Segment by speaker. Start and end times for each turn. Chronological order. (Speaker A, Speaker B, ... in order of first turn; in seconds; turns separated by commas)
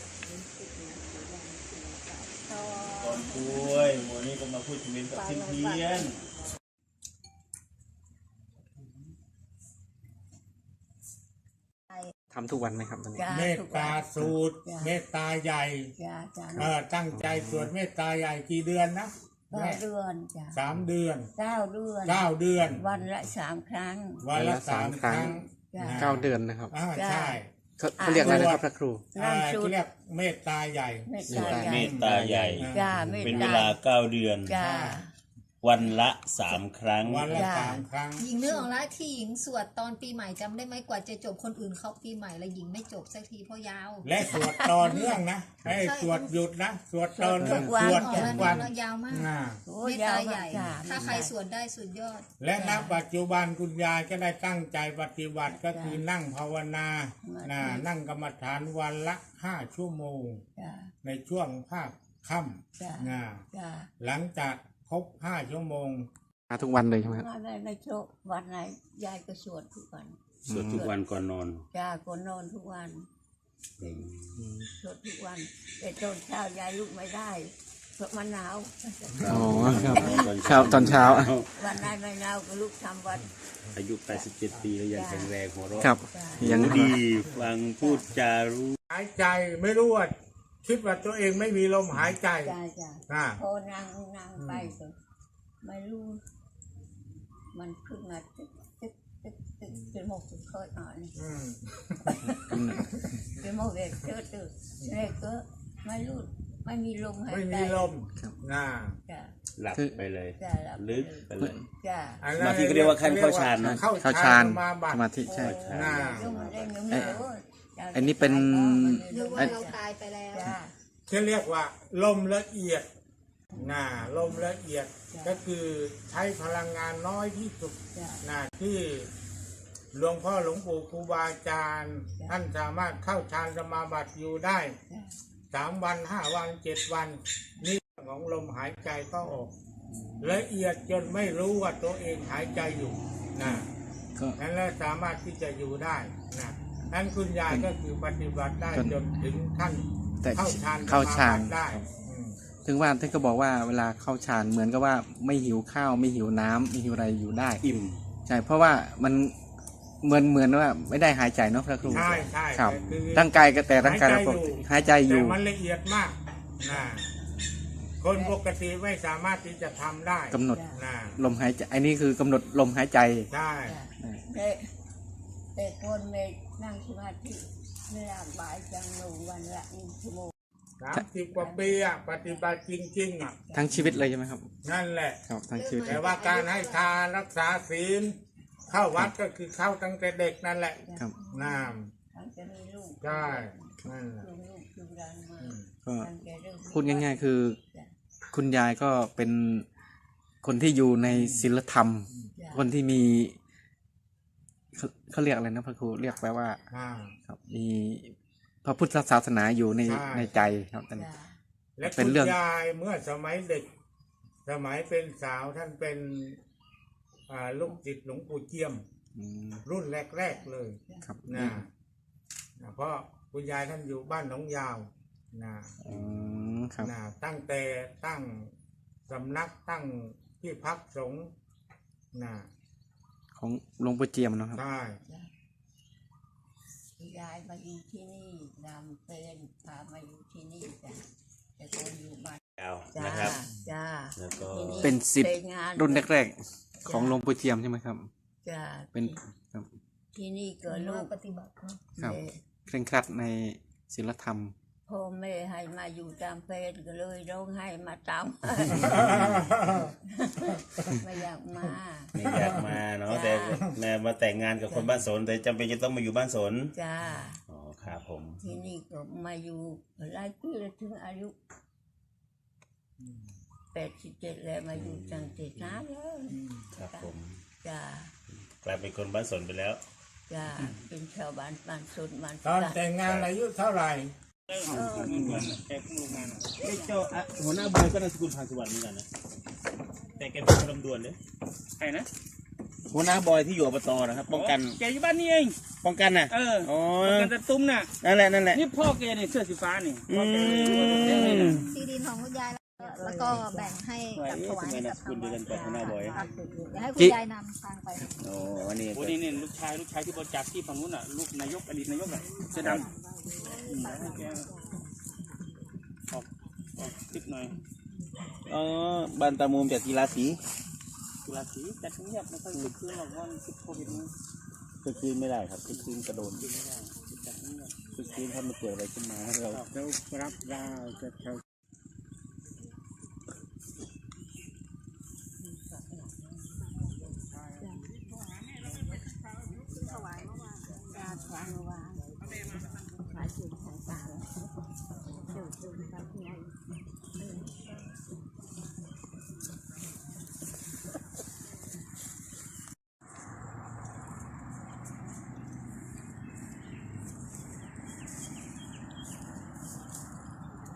Speaker A: 0.5-3.3, Speaker B: 2.9-6.2, Speaker A: 5.1-6.1, Speaker C: 12.3-13.2, Speaker D: 13.2-15.0, Speaker E: 13.3-15.9, Speaker D: 16.0-16.7, Speaker E: 16.6-19.8, Speaker B: 16.6-17.7, Speaker D: 19.5-20.6, Speaker E: 20.5-21.3, Speaker D: 21.4-24.2, Speaker E: 22.1-22.8, Speaker E: 24.2-27.5, Speaker C: 24.4-25.4, Speaker D: 25.7-26.2, Speaker C: 26.0-26.7, Speaker D: 26.9-27.4, Speaker C: 27.8-29.0, Speaker D: 28.0-28.5, Speaker E: 28.2-28.6, Speaker D: 29.1-29.8, Speaker E: 29.2-31.1, Speaker D: 31.1-32.0, Speaker C: 31.3-32.6, Speaker B: 31.3-34.5, Speaker E: 31.7-32.9, Speaker D: 32.7-33.8, Speaker D: 34.5-35.1, Speaker E: 34.6-35.0, Speaker B: 35.6-37.7, Speaker E: 37.0-38.3, Speaker D: 37.3-37.8, Speaker A: 38.2-44.1, Speaker E: 44.0-49.6, Speaker D: 44.2-45.2, Speaker A: 45.7-46.3, Speaker D: 47.2-48.6, Speaker C: 47.4-48.3, Speaker A: 47.9-49.3, Speaker D: 49.7-51.4, Speaker A: 49.8-52.2, Speaker E: 52.4-60.4, Speaker D: 52.6-53.0, Speaker D: 55.5-56.0, Speaker D: 57.2-57.9, Speaker D: 60.6-60.9, Speaker E: 61.0-63.4, Speaker D: 62.8-63.9, Speaker E: 64.0-66.1, Speaker C: 66.5-67.3, Speaker D: 66.6-71.0, Speaker B: 70.5-71.7, Speaker C: 70.5-70.8, Speaker D: 71.7-73.1, Speaker B: 73.8-74.4, Speaker D: 73.8-74.1, Speaker D: 74.8-80.3, Speaker B: 79.2-81.5, Speaker C: 79.3-81.3, Speaker D: 81.6-83.3, Speaker B: 83.8-88.8, Speaker D: 84.9-85.4, Speaker C: 85.8-87.0, Speaker D: 86.1-86.6, Speaker D: 87.8-88.1, Speaker E: 88.9-92.5, Speaker D: 92.4-94.9, Speaker E: 93.1-93.4, Speaker E: 94.4-94.7, Speaker D: 95.6-96.2, Speaker D: 97.5-101.1, Speaker E: 101.2-102.2, Speaker D: 102.1-102.8, Speaker C: 102.5-102.9, Speaker D: 103.4-107.9, Speaker E: 107.3-109.0, Speaker B: 109.6-111.6, Speaker C: 109.7-110.0, Speaker D: 110.4-111.3, Speaker C: 111.4-111.7, Speaker D: 111.8-112.2, Speaker E: 112.2-115.1, Speaker B: 112.4-113.8, Speaker C: 113.6-115.6, Speaker D: 115.2-120.7, Speaker B: 115.3-117.2, Speaker E: 115.7-116.3, Speaker C: 116.9-117.2, Speaker C: 117.9-119.6, Speaker A: 119.1-120.5, Speaker E: 121.1-122.9, Speaker E: 123.5-129.1, Speaker D: 125.1-125.4, Speaker D: 127.9-128.2, Speaker E: 129.9-134.7, Speaker D: 134.9-135.2, Speaker E: 135.5-139.5, Speaker E: 140.2-143.7, Speaker E: 144.4-152.4, Speaker C: 150.2-151.9, Speaker C: 152.7-157.6, Speaker B: 157.6-158.0, Speaker C: 158.3-159.3, Speaker C: 160.0-165.4, Speaker B: 161.9-162.3, Speaker E: 161.9-167.1, Speaker D: 166.7-168.4, Speaker E: 168.0-171.2, Speaker C: 170.3-170.6, Speaker D: 170.5-170.8, Speaker C: 171.2-173.3, Speaker E: 173.3-173.8, Speaker D: 173.7-174.7, Speaker D: 175.6-180.3, Speaker E: 180.8-183.9, Speaker D: 181.3-182.4, Speaker D: 183.4-183.8, Speaker C: 183.5-184.5, Speaker E: 184.6-185.2, Speaker C: 185.3-186.0, Speaker A: 185.5-186.9, Speaker E: 185.8-188.2, Speaker E: 188.7-191.9, Speaker A: 191.2-191.6, Speaker D: 192.1-197.9, Speaker E: 193.0-194.2, Speaker E: 195.4-195.7, Speaker C: 196.7-197.6, Speaker C: 198.3-199.7, Speaker C: 200.4-203.4, Speaker E: 201.1-201.5, Speaker D: 202.4-202.7, Speaker C: 204.8-206.6, Speaker E: 206.7-207.1, Speaker C: 207.3-208.1, Speaker C: 208.6-211.1, Speaker E: 209.8-210.3, Speaker D: 210.9-211.4, Speaker E: 211.8-213.7, Speaker C: 211.8-212.3, Speaker E: 214.5-216.4, Speaker E: 217.3-218.8, Speaker C: 219.2-219.6, Speaker E: 219.7-221.7, Speaker D: 220.2-221.1, Speaker C: 221.0-221.6, Speaker E: 222.6-225.7, Speaker C: 225.8-226.9, Speaker B: 225.9-226.3, Speaker E: 226.8-228.5, Speaker E: 229.1-231.3, Speaker E: 232.1-232.5, Speaker C: 233.4-234.6, Speaker E: 234.6-235.0, Speaker D: 237.0-241.0, Speaker D: 241.6-242.4, Speaker B: 242.6-243.4, Speaker D: 242.9-246.1, Speaker B: 244.2-245.0, Speaker C: 244.8-248.1, Speaker D: 246.8-247.2, Speaker D: 248.4-249.2, Speaker C: 248.9-249.7, Speaker D: 250.1-251.2, Speaker A: 250.7-251.9, Speaker D: 251.9-252.3, Speaker C: 251.9-254.5, Speaker D: 254.9-262.1, Speaker B: 258.9-259.5, Speaker B: 262.1-266.7, Speaker D: 263.1-263.7, Speaker D: 264.7-265.0, Speaker D: 266.8-267.4, Speaker B: 267.5-268.5, Speaker D: 268.4-271.4, Speaker D: 273.7-277.1, Speaker B: 274.7-275.8, Speaker E: 276.3-276.6, Speaker B: 276.7-277.4, Speaker D: 277.6-278.1, Speaker B: 278.3-279.8, Speaker D: 280.3-282.8, Speaker B: 280.5-280.8, Speaker E: 282.4-284.1, Speaker B: 283.0-283.3, Speaker F: 284.5-286.8, Speaker B: 284.7-285.6, Speaker D: 284.7-285.2, Speaker E: 285.2-285.5, Speaker B: 286.6-289.1, Speaker B: 290.2-291.2, Speaker F: 291.8-292.1, Speaker B: 292.9-294.8, Speaker F: 294.2-295.6, Speaker B: 295.8-297.4, Speaker F: 296.3-297.9, Speaker B: 298.0-298.7, Speaker F: 298.5-301.6, Speaker B: 300.1-301.7, Speaker A: 301.7-305.5, Speaker D: 302.8-303.8, Speaker B: 304.2-306.3, Speaker D: 305.5-306.9, Speaker A: 306.1-308.1, Speaker B: 308.2-309.4, Speaker F: 308.9-312.9, Speaker F: 313.7-314.5, Speaker F: 316.1-317.5, Speaker B: 318.5-320.4, Speaker F: 321.3-324.1, Speaker B: 324.8-326.5, Speaker F: 325.9-327.8, Speaker B: 327.9-329.6, Speaker E: 329.5-330.8, Speaker D: 335.4-336.5, Speaker D: 339.9-342.1, Speaker D: 342.8-344.4, Speaker D: 345.1-346.5